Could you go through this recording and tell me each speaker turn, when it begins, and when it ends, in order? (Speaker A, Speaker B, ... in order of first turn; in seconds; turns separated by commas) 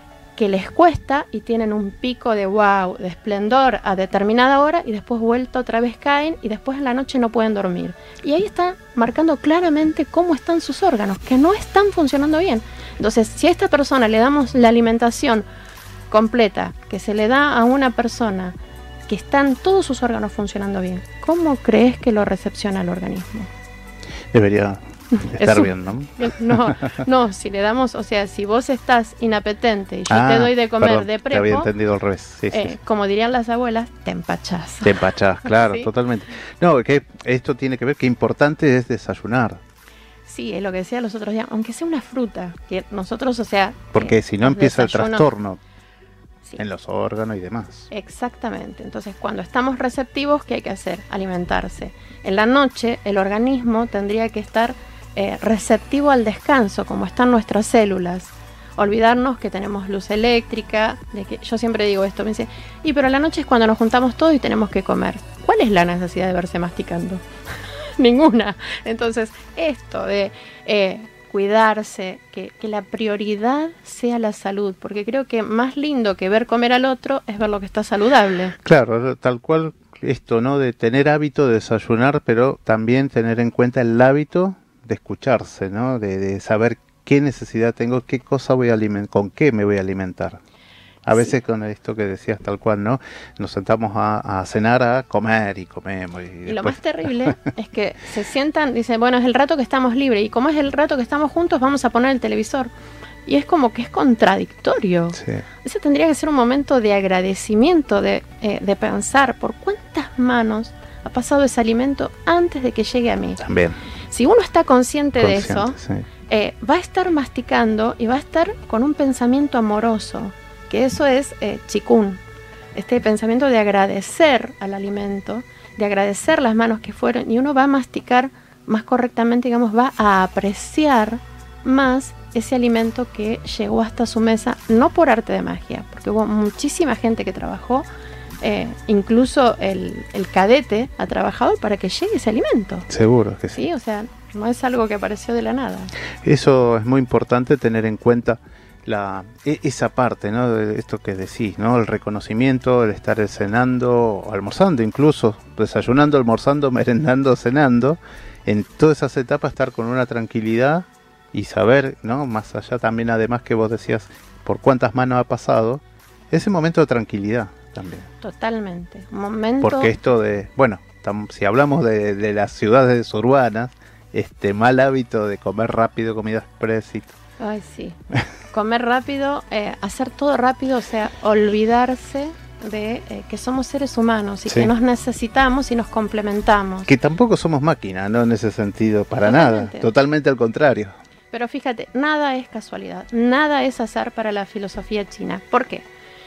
Speaker A: 0.3-15.4, Speaker A: 16.1-18.6, Speaker A: 19.1-23.5, Speaker B: 24.3-26.8, Speaker A: 25.2-31.7, Speaker B: 30.1-32.8, Speaker A: 32.5-35.9, Speaker B: 34.8-39.6, Speaker A: 40.3-45.3, Speaker B: 43.9-45.6, Speaker B: 46.6-47.9, Speaker A: 47.9-67.2, Speaker A: 67.8-78.5, Speaker B: 78.6-90.4, Speaker B: 91.0-97.3, Speaker A: 91.1-91.4, Speaker A: 96.5-102.7, Speaker A: 103.2-113.4, Speaker B: 105.2-105.4, Speaker B: 113.4-113.8, Speaker A: 114.1-122.2, Speaker B: 115.2-116.0, Speaker A: 122.8-137.8, Speaker A: 138.4-142.9, Speaker B: 142.9-143.7, Speaker A: 143.5-145.9, Speaker B: 146.2-168.1, Speaker A: 168.2-169.9, Speaker B: 169.6-177.2, Speaker A: 177.4-178.0, Speaker A: 178.5-186.9, Speaker B: 184.5-184.7, Speaker B: 186.9-190.9, Speaker A: 189.2-189.9, Speaker A: 191.3-195.8